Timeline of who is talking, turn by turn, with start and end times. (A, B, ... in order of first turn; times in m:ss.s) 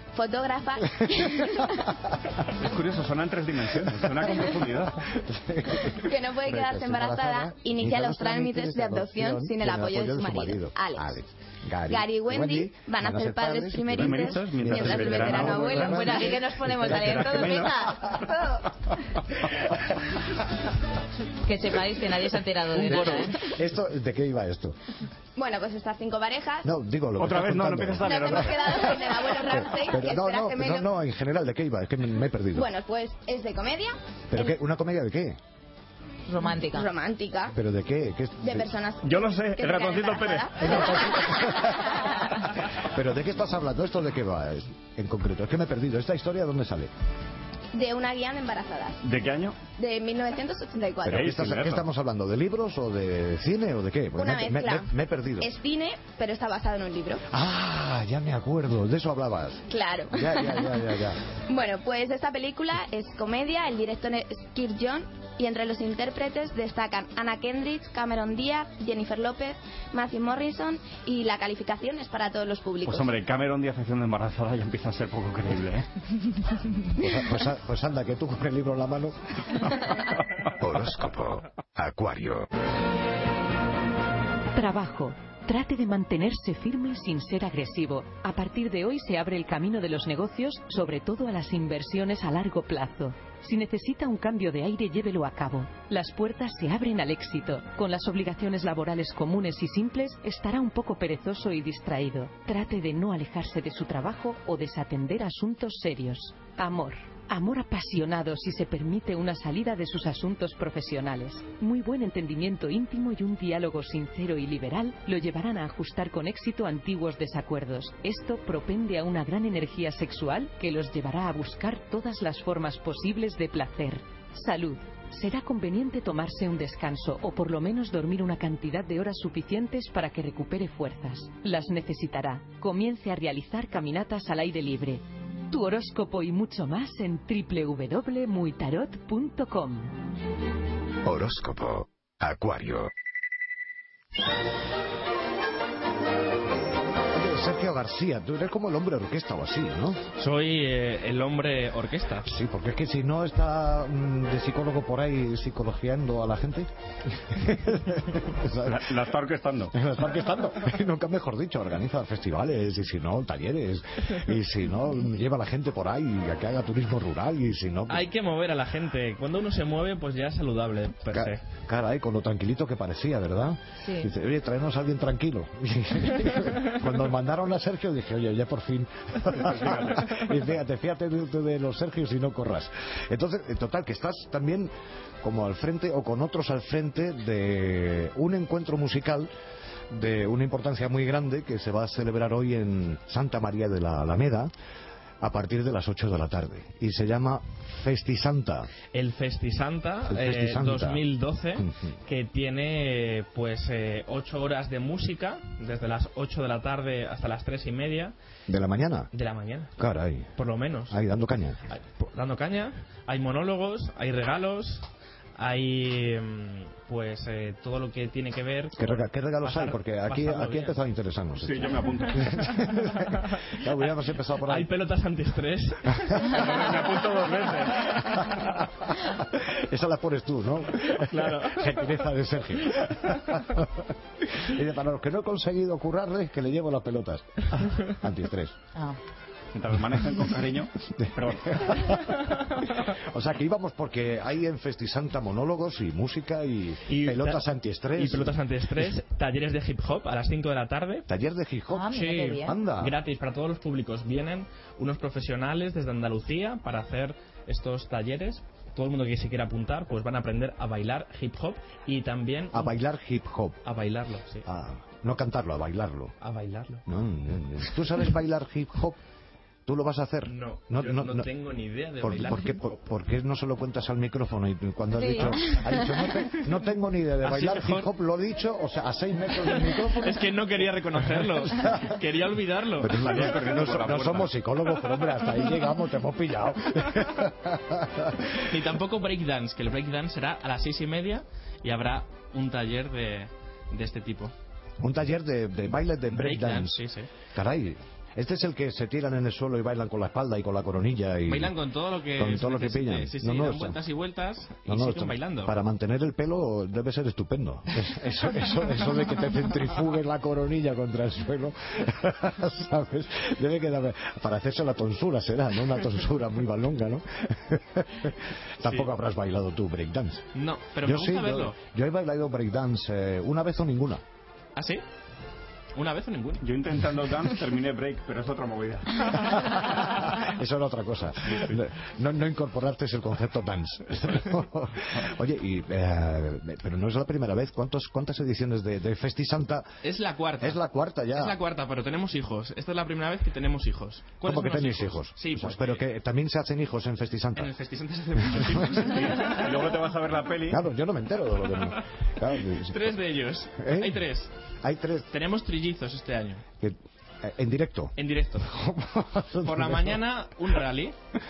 0:00.1-0:01.8 A
0:00.9-0:02.3 B
0:02.6-0:05.0 C
0:03.8-0:18.2 B
0:05.9-0:11.2 A
0:06.5-0:06.8 C
0:11.9-0:18.6 A
0:13.9-0:16.2 C
0:15.8-0:16.9 D
0:16.8-0:17.7 C
0:21.4-0:23.4 D
0:22.7-0:24.8 B
0:25.4-0:26.7 A
0:26.6-0:32.7 B
0:27.2-0:28.9 C
0:28.0-0:30.9 A
0:32.5-0:34.6 A
0:34.3-0:35.4 B
0:36.3-0:36.9 D
0:36.6-0:37.5 A
0:37.5-0:38.7 B
0:38.4-0:42.1 A
0:39.0-0:40.7 C
0:40.6-0:42.0 B
0:42.9-0:46.9 B
0:47.7-0:49.0 A
0:49.0-0:49.6 C
0:49.7-0:51.3 A
0:51.0-0:55.5 B
0:51.0-0:51.8 C
0:54.2-0:54.9 A
0:55.4-0:57.2 A
0:57.3-1:01.2 B
0:59.7-1:00.9 A
1:01.5-1:13.1 A
1:12.8-1:15.9 C
1:17.0-1:19.2 B
1:20.6-1:22.5 E
1:24.5-2:20.0 F
2:21.0-2:22.9 E
2:27.1-2:30.0 B
2:30.2-2:32.3 G
2:32.2-2:39.0 B
2:38.6-2:39.7 C
2:39.7-2:48.0 B
2:47.9-2:51.4 G
2:51.1-3:09.3 B
2:53.8-2:54.1 D
2:59.6-2:59.9 C
3:09.9-3:14.5 B
3:15.2-3:18.7 B
3:18.9-3:28.1 G
3:20.1-3:21.0 B
3:21.6-3:21.9 B
3:28.5-3:29.1 B
3:29.1-3:29.7 G
3:29.8-3:31.6 B
3:30.4-3:31.0 G
3:31.7-3:34.9 G
3:35.4-3:40.8 G
3:38.8-3:44.7 B
3:41.4-3:42.3 C
3:44.4-3:46.4 G
3:46.4-3:47.8 C
3:48.4-3:58.6 B
3:50.9-3:51.8 G
3:59.5-4:01.7 C
4:00.9-4:02.1 B
4:02.9-4:08.3 B
4:06.9-4:07.4 G
4:08.0-4:11.1 G
4:11.1-4:12.9 B
4:11.7-4:12.5 D
4:11.9-4:22.7 G
4:22.5-4:23.6 B
4:23.6-4:24.4 G
4:24.4-4:26.1 B
4:26.2-4:26.8 G
4:26.8-4:29.0 B
4:29.6-4:31.3 B
4:30.3-4:32.8 G
4:32.0-4:40.2 B
4:34.9-4:35.8 D
4:37.2-4:37.9 G
4:40.0-4:43.4 G
4:41.1-4:41.8 B
4:42.8-4:48.3 B
4:43.0-4:44.3 C
4:48.5-4:54.3 G
4:54.8-4:56.8 B
4:56.1-4:57.1 G
4:57.3-5:01.5 B
5:01.3-5:05.5 G
5:02.2-5:03.8 B
5:04.7-5:20.2 B
5:20.3-5:21.6 G
5:20.8-5:24.0 B
5:24.6-5:24.8 G
5:25.7-5:26.4 G
5:26.4-5:29.5 C
5:29.5-5:39.7 B
5:31.3-5:31.6 C
5:39.8-5:40.6 G
5:40.4-5:41.3 B
5:41.1-5:45.8 G
5:44.2-5:47.5 B
5:47.4-5:49.4 G
5:48.2-5:49.0 B
5:48.9-5:50.6 C
5:50.5-5:53.0 B
5:52.7-5:54.3 G
5:53.6-5:54.0 B
5:54.6-5:55.1 B
5:55.1-5:56.4 G
5:56.6-6:00.0 B
5:58.0-5:58.5 G
5:59.4-6:01.0 G